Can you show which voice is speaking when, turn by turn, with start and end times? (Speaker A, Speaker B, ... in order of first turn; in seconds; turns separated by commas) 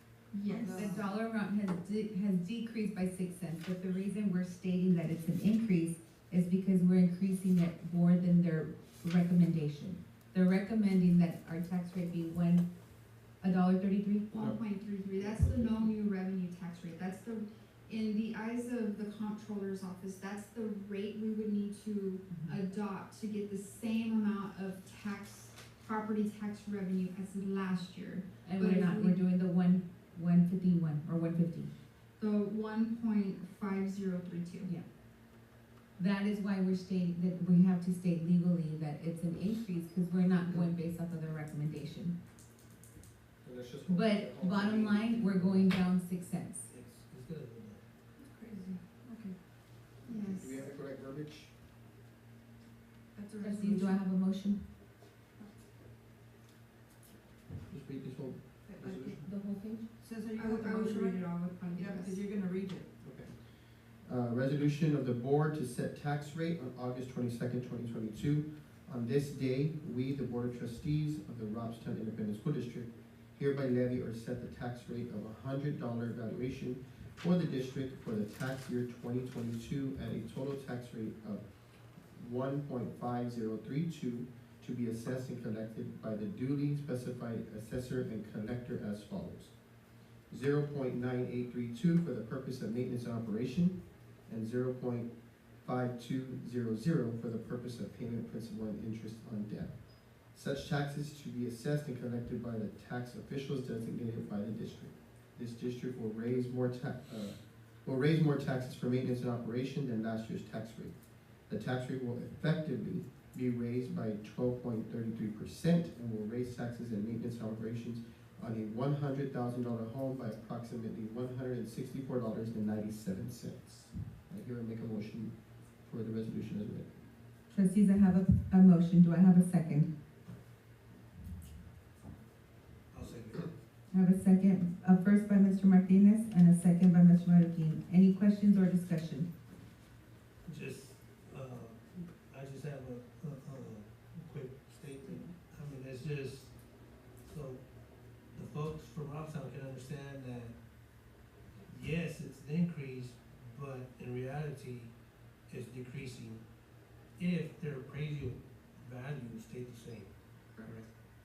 Speaker A: 0.3-1.1, Speaker B: 0.4-1.1, Speaker C: 0.7-12.7, Speaker C: 13.4-14.3, Speaker A: 14.3-29.2, Speaker D: 15.2-15.9, Speaker C: 22.3-22.6, Speaker C: 28.4-31.7, Speaker A: 32.2-34.7, Speaker C: 36.0-42.1, Speaker D: 43.4-45.8, Speaker C: 43.9-46.7, Speaker E: 46.7-47.8, Speaker B: 48.1-49.4, Speaker A: 50.0-50.6, Speaker D: 50.1-51.5, Speaker B: 53.1-54.0, Speaker C: 53.4-54.6, Speaker B: 55.4-55.7, Speaker D: 57.7-59.1, Speaker B: 58.6-59.2, Speaker C: 59.2-59.9, Speaker B: 60.0-62.9, Speaker A: 60.3-62.2, Speaker D: 63.0-81.4, Speaker D: 82.1-89.6, Speaker D: 90.3-99.8, Speaker D: 100.3-110.9, Speaker D: 111.5-126.9, Speaker C: 127.5-129.9, Speaker E: 132.9-133.5, Speaker C: 133.9-139.3, Speaker E: 140.4-146.5, Speaker E: 147.2-147.6, Speaker E: 148.3-150.5, Speaker E: 151.7-154.9, Speaker E: 155.5-156.4, Speaker E: 157.2-160.1, Speaker A: 160.5-160.8, Speaker E: 160.6-160.9